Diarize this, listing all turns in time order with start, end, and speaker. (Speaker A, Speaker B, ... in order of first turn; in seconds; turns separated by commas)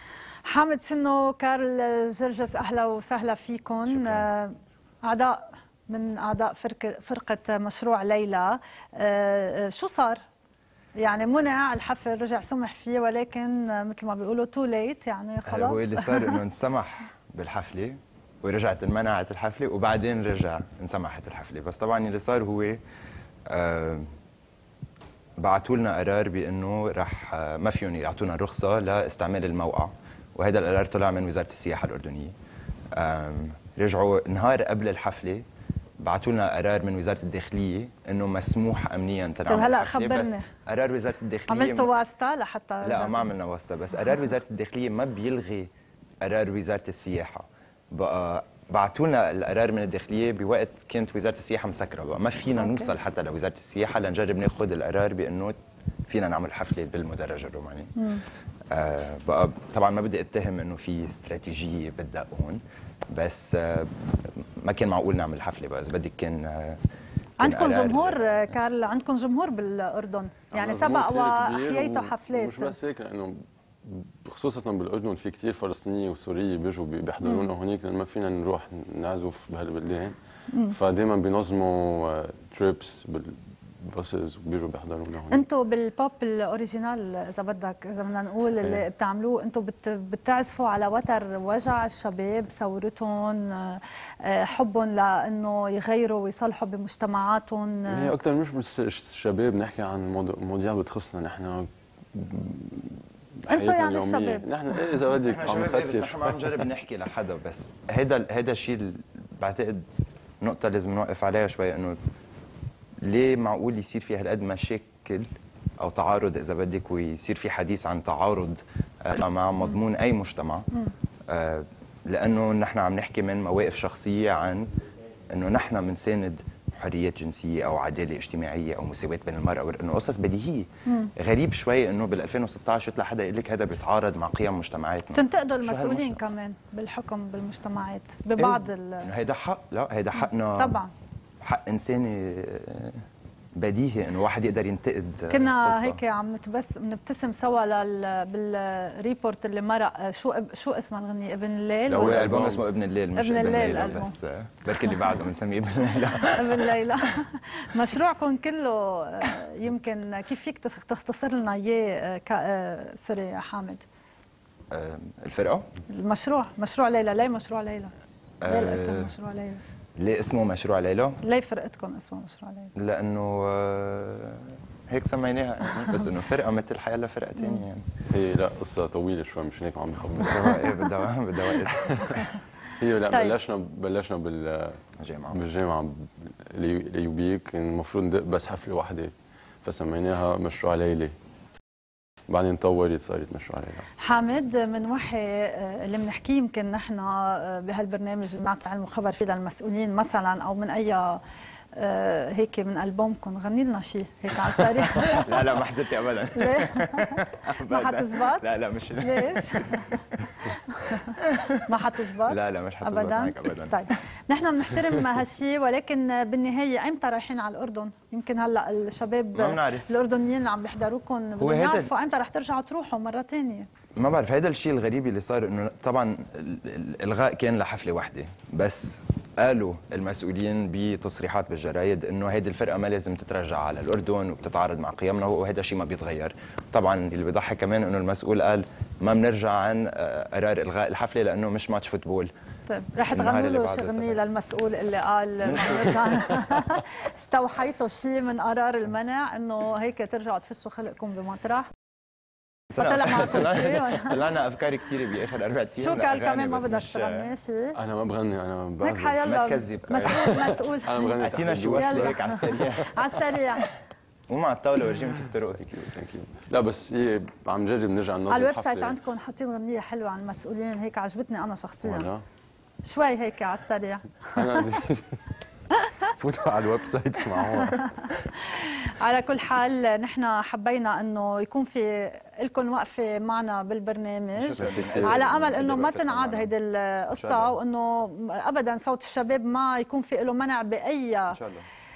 Speaker A: 0.5-10.2, Speaker B: 3.9-4.3, Speaker A: 10.9-16.4, Speaker B: 15.4-22.8, Speaker B: 23.5-24.1, Speaker B: 25.4-32.3, Speaker B: 32.9-35.4, Speaker B: 36.0-41.9, Speaker A: 39.5-40.5, Speaker A: 41.5-43.3, Speaker B: 42.8-45.7, Speaker B: 46.2-55.5, Speaker A: 52.6-52.9, Speaker B: 56.1-57.9, Speaker A: 58.0-58.2, Speaker B: 58.7-66.8, Speaker B: 67.4-68.5, Speaker A: 67.4-72.8, Speaker C: 70.5-85.5, Speaker A: 77.2-77.5, Speaker A: 80.5-80.8, Speaker A: 85.3-98.1, Speaker C: 97.9-106.6, Speaker A: 103.5-104.5, Speaker B: 105.2-109.8, Speaker B: 110.4-112.0, Speaker B: 113.0-115.3, Speaker B: 115.8-120.7, Speaker B: 121.3-124.7, Speaker B: 125.3-136.2, Speaker A: 135.1-139.1, Speaker B: 138.4-140.8, Speaker A: 140.6-140.9, Speaker B: 141.4-143.0, Speaker B: 143.6-146.0, Speaker A: 145.3-152.3, Speaker C: 151.9-152.6, Speaker B: 152.0-157.0, Speaker A: 153.1-154.2, Speaker A: 154.7-155.1, Speaker A: 156.2-163.8, Speaker B: 164.7-165.7, Speaker A: 165.9-167.9, Speaker B: 168.4-169.1, Speaker A: 168.4-169.6, Speaker B: 170.0-171.2, Speaker A: 171.2-172.7, Speaker B: 172.8-177.9, Speaker C: 178.1-180.8, Speaker B: 180.3-182.2, Speaker C: 181.7-189.1, Speaker A: 183.1-183.3, Speaker B: 185.0-185.4, Speaker C: 189.6-191.1, Speaker C: 192.3-193.9, Speaker A: 194.0-201.2, Speaker A: 201.7-205.4, Speaker B: 204.8-210.5, Speaker A: 206.3-208.4, Speaker A: 209.0-223.7, Speaker B: 211.2-211.6, Speaker B: 212.2-213.8, Speaker B: 219.3-219.9, Speaker B: 221.4-221.9, Speaker B: 223.9-242.3, Speaker A: 242.7-251.7, Speaker B: 243.1-244.2, Speaker B: 245.4-246.4, Speaker B: 252.7-257.3, Speaker A: 252.8-254.2, Speaker A: 255.7-257.8, Speaker C: 257.7-259.4, Speaker A: 258.8-261.2, Speaker B: 259.2-260.3, Speaker C: 260.0-263.1, Speaker B: 261.2-263.6, Speaker A: 261.7-263.7, Speaker B: 264.3-265.7, Speaker C: 265.6-269.0, Speaker A: 268.3-272.1, Speaker C: 271.8-272.2, Speaker A: 272.8-274.6, Speaker C: 274.3-275.2, Speaker C: 276.0-278.1, Speaker A: 277.6-291.4, Speaker B: 284.4-286.5, Speaker C: 284.6-285.2, Speaker B: 287.1-287.6, Speaker B: 291.3-291.7